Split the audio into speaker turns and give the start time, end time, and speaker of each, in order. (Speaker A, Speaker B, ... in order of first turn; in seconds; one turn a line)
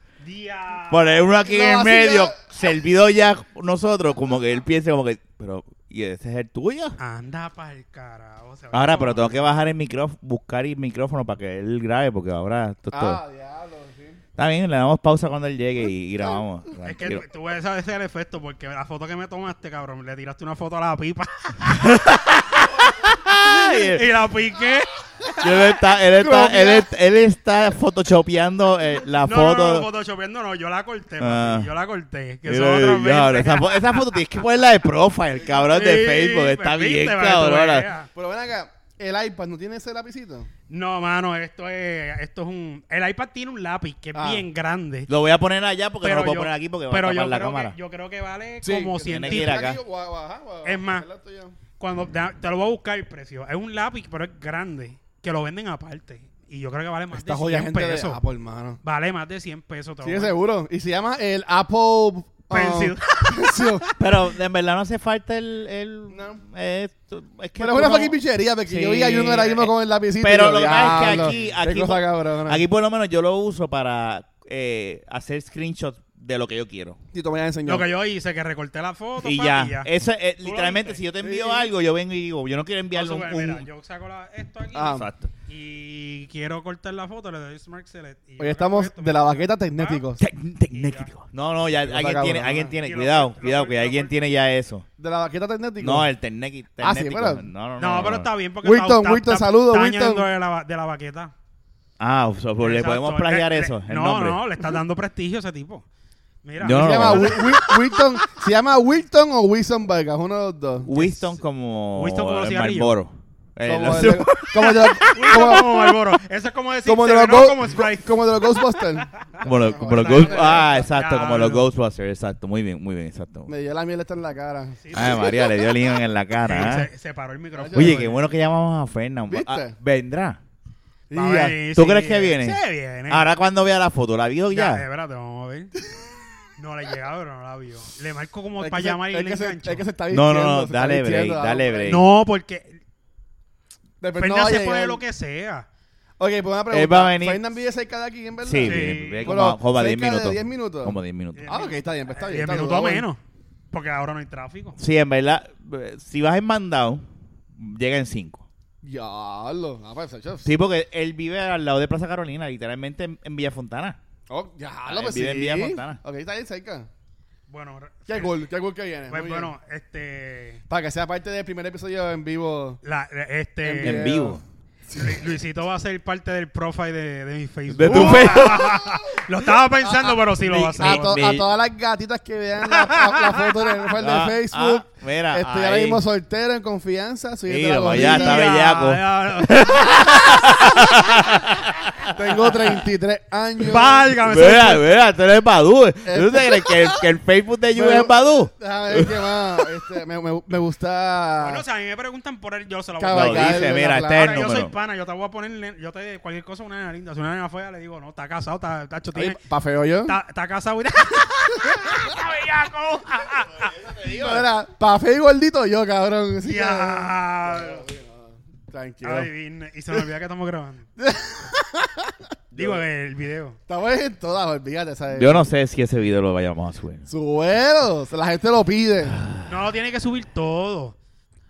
Speaker A: 0.2-1.2
Speaker B: 0.9-7.0
Speaker C: 1.4-2.4
Speaker A: 7.0-9.5
Speaker B: 8.7-13.2
Speaker C: 12.9-14.2
Speaker B: 14.4-17.2
Speaker A: 16.8-22.1
Speaker B: 21.7-24.1
Speaker A: 23.4-25.6
Speaker B: 25.4-29.9
Speaker C: 26.2-26.9
Speaker A: 29.3-34.2
Speaker B: 31.2-31.7
Speaker B: 32.5-37.9
Speaker A: 35.6-38.1
Speaker C: 38.1-40.5
Speaker A: 40.7-45.1
Speaker C: 44.1-44.5
Speaker B: 45.1-47.8
Speaker A: 46.0-49.6
Speaker C: 48.6-51.6
Speaker B: 49.1-49.8
Speaker A: 50.6-51.1
Speaker A: 51.8-58.2
Speaker C: 57.1-58.8
Speaker A: 58.8-60.3
Speaker C: 60.0-63.9
Speaker A: 62.5-64.0
Speaker B: 64.0-77.0
Speaker C: 66.1-66.4
Speaker C: 67.6-72.6
Speaker A: 71.0-71.3
Speaker C: 77.1-77.9
Speaker A: 77.7-79.9
Speaker B: 79.2-83.7
Speaker A: 80.4-81.0
Speaker C: 81.2-81.7
Speaker A: 82.9-90.0
Speaker C: 84.7-85.1
Speaker B: 84.9-85.3
Speaker C: 88.4-90.2
Speaker B: 90.2-94.8
Speaker A: 90.7-91.1
Speaker C: 91.8-92.8
Speaker A: 92.8-94.1
Speaker C: 95.0-96.1
Speaker B: 95.8-98.3
Speaker C: 96.8-97.5
Speaker A: 97.8-101.3
Speaker C: 98.6-100.3
Speaker B: 102.0-104.4
Speaker A: 102.6-105.8
Speaker A: 106.4-108.0
Speaker B: 106.6-107.7
Speaker C: 106.7-110.9
Speaker B: 110.8-115.8
Speaker A: 110.9-111.4
Speaker A: 112.0-113.0
Speaker C: 113.6-115.9
Speaker A: 115.0-118.1
Speaker C: 116.8-120.7
Speaker B: 119.4-123.5
Speaker A: 119.9-121.7
Speaker C: 123.5-125.2
Speaker A: 124.8-125.5
Speaker B: 124.9-126.9
Speaker A: 126.4-128.2
Speaker C: 127.5-128.1
Speaker B: 127.7-130.4
Speaker C: 129.3-129.8
Speaker C: 131.1-131.6
Speaker A: 131.1-133.3
Speaker B: 131.8-134.8
Speaker A: 134.5-135.7
Speaker A: 136.6-139.9
Speaker C: 138.6-142.0
Speaker B: 140.1-142.1
Speaker A: 141.9-142.8
Speaker C: 144.0-145.0
Speaker A: 144.2-145.7
Speaker C: 146.2-153.1
Speaker B: 146.7-147.4
Speaker B: 148.4-151.6
Speaker A: 148.6-149.4
Speaker A: 151.4-153.2
Speaker A: 153.7-154.8
Speaker B: 154.8-157.1
Speaker B: 157.6-158.4
Speaker C: 158.8-160.5
Speaker B: 160.4-164.0
Speaker C: 164.3-166.9
Speaker B: 164.9-166.0
Speaker A: 167.5-168.3
Speaker C: 168.1-169.5
Speaker A: 169.1-170.6
Speaker C: 170.7-172.8
Speaker A: 172.8-174.1
Speaker C: 173.6-174.4
Speaker B: 173.8-174.4
Speaker C: 174.9-175.2
Speaker A: 174.9-181.2
Speaker B: 177.7-178.9
Speaker C: 177.9-178.7
Speaker C: 180.4-188.5
Speaker B: 180.5-181.5
Speaker A: 182.7-183.8
Speaker B: 184.0-186.0
Speaker B: 187.5-192.7
Speaker A: 187.9-190.4
Speaker C: 192.1-194.2
Speaker A: 193.6-194.8
Speaker B: 194.2-199.6
Speaker C: 196.1-197.1
Speaker C: 197.7-201.6
Speaker A: 201.4-209.4
Speaker C: 203.0-204.4
Speaker B: 203.1-204.7
Speaker C: 209.1-210.2
Speaker A: 210.1-213.7
Speaker B: 213.3-214.5
Speaker C: 214.0-219.3
Speaker A: 216.4-217.8
Speaker A: 219.0-220.9
Speaker C: 221.0-222.3
Speaker A: 222.6-223.6
Speaker C: 223.7-225.5
Speaker B: 225.1-227.1
Speaker C: 227.1-229.2
Speaker B: 229.2-229.4
Speaker A: 229.4-231.0